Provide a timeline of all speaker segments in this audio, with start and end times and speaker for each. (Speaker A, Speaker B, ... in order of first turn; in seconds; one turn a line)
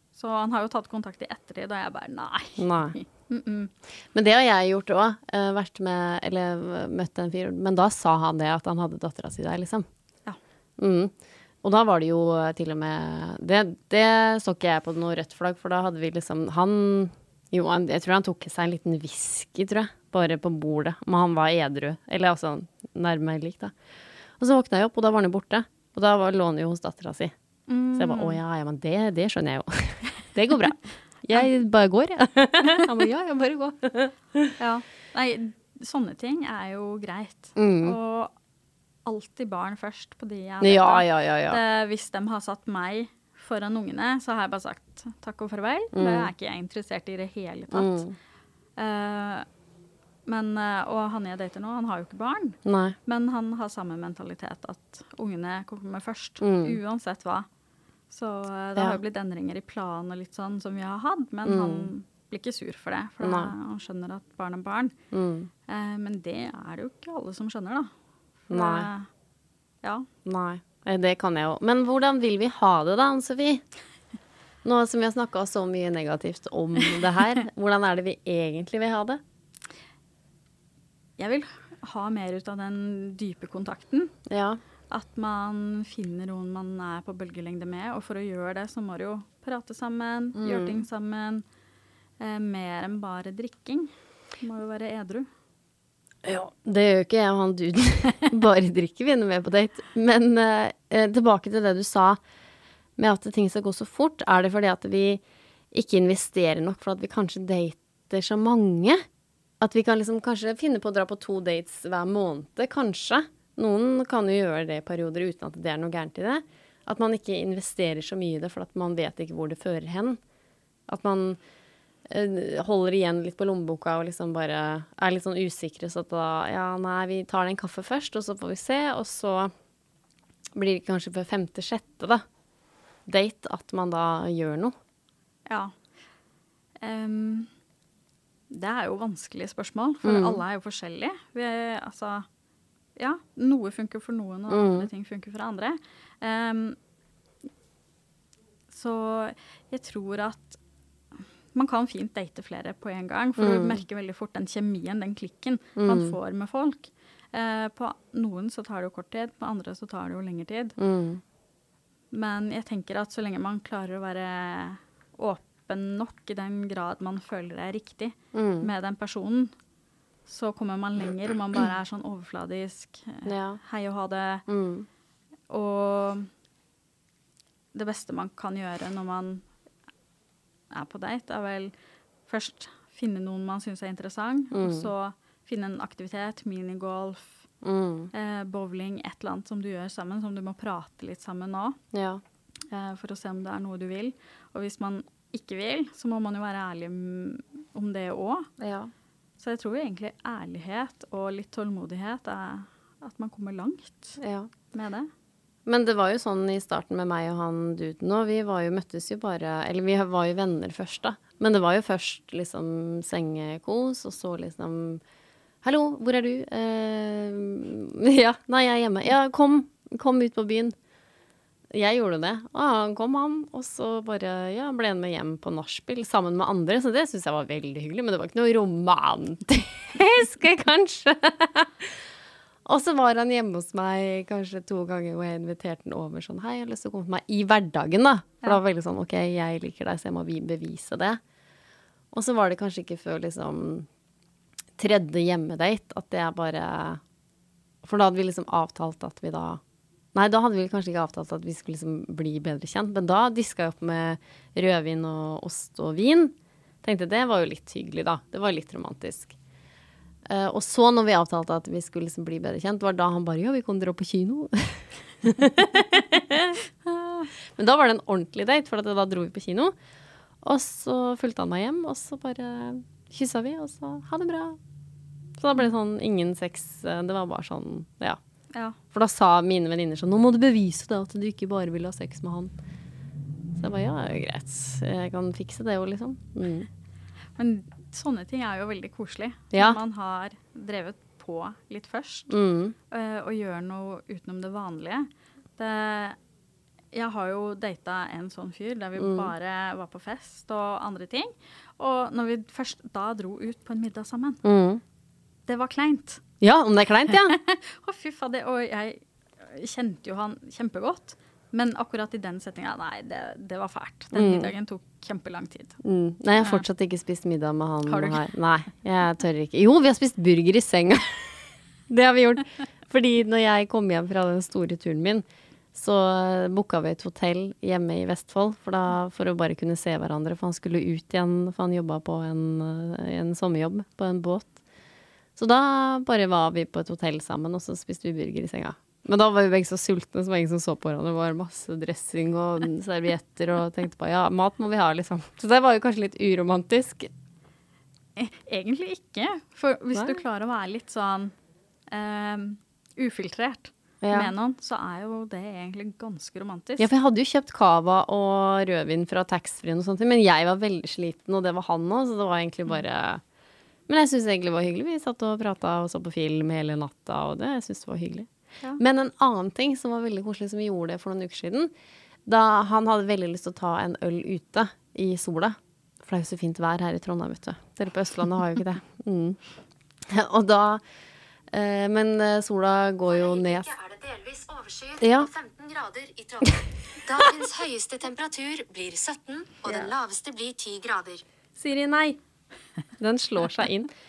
Speaker A: 0.1-3.7
Speaker B: 2.6-3.0
Speaker B: 4.1-9.9
Speaker B: 10.8-23.7
Speaker B: 24.4-27.3
Speaker A: 27.7-28.4
Speaker B: 27.9-34.5
Speaker A: 34.6-38.3
Speaker B: 37.6-38.0
Speaker A: 39.0-48.0
Speaker B: 40.6-41.6
Speaker B: 45.9-46.3
Speaker B: 47.7-48.1
Speaker A: 48.8-49.5
Speaker A: 50.3-57.5
Speaker B: 52.6-53.0
Speaker B: 56.4-56.8
Speaker A: 58.1-64.9
Speaker B: 61.5-61.9
Speaker B: 63.2-63.5
Speaker B: 65.1-65.5
Speaker A: 65.7-67.9
Speaker A: 68.5-69.1
Speaker B: 68.5-68.9
Speaker B: 70.2-73.6
Speaker B: 74.6-79.2
Speaker A: 81.2-84.1
Speaker B: 84.3-84.6
Speaker A: 84.9-91.4
Speaker B: 90.3-90.8
Speaker A: 92.2-95.3
Speaker B: 96.2-102.2
Speaker B: 103.0-105.2
Speaker B: 105.7-109.0
Speaker B: 109.6-120.2
Speaker B: 120.9-121.4
Speaker B: 122.1-129.5
Speaker B: 130.6-132.2
Speaker B: 133.1-134.7
Speaker A: 135.5-135.7
Speaker A: 136.8-137.5
Speaker A: 138.5-142.3
Speaker B: 140.0-140.4
Speaker A: 143.0-146.8
Speaker B: 144.5-144.9
Speaker A: 148.7-150.6
Speaker A: 151.5-160.8
Speaker B: 153.4-153.8
Speaker B: 155.8-156.2
Speaker B: 160.8-161.2
Speaker A: 162.1-169.5
Speaker B: 168.3-168.7
Speaker A: 170.3-174.5
Speaker B: 173.2-173.6
Speaker B: 174.5-174.9
Speaker A: 175.5-176.3
Speaker A: 177.7-179.4
Speaker A: 180.7-181.7
Speaker A: 182.3-187.5
Speaker B: 184.5-184.9
Speaker B: 187.6-188.1
Speaker A: 188.1-191.8
Speaker B: 191.9-192.2
Speaker A: 192.7-198.5
Speaker B: 198.6-198.9
Speaker A: 199.4-204.2
Speaker B: 204.2-204.5
Speaker A: 204.7-205.1
Speaker B: 205.7-215.0
Speaker B: 215.6-220.8
Speaker B: 221.7-231.9
Speaker B: 232.7-241.2
Speaker B: 242.1-243.9
Speaker B: 244.8-247.0
Speaker B: 247.8-249.6
Speaker B: 250.1-259.4
Speaker B: 260.3-269.7
Speaker B: 270.4-274.6
Speaker B: 275.4-278.2
Speaker B: 278.9-282.5
Speaker B: 283.6-286.7
Speaker A: 287.4-292.3
Speaker B: 289.5-289.8
Speaker B: 292.3-292.8
Speaker A: 292.9-296.2
Speaker A: 296.9-304.4
Speaker B: 299.0-299.3
Speaker B: 304.4-304.8
Speaker A: 305.5-306.2
Speaker B: 306.4-307.4
Speaker A: 307.1-315.8
Speaker B: 314.1-314.5
Speaker B: 315.8-321.3
Speaker A: 317.9-318.3
Speaker B: 321.9-334.6
Speaker B: 335.4-347.1
Speaker A: 348.2-351.3
Speaker B: 349.9-350.2
Speaker A: 351.9-356.9
Speaker B: 354.0-354.3
Speaker B: 356.8-363.2
Speaker B: 363.9-371.7
Speaker B: 372.3-379.4
Speaker B: 380.1-380.8
Speaker B: 381.5-383.8
Speaker C: 383.2-391.2
Speaker B: 385.0-385.3
Speaker B: 386.4-387.3
Speaker B: 391.6-392.2
Speaker B: 393.0-393.9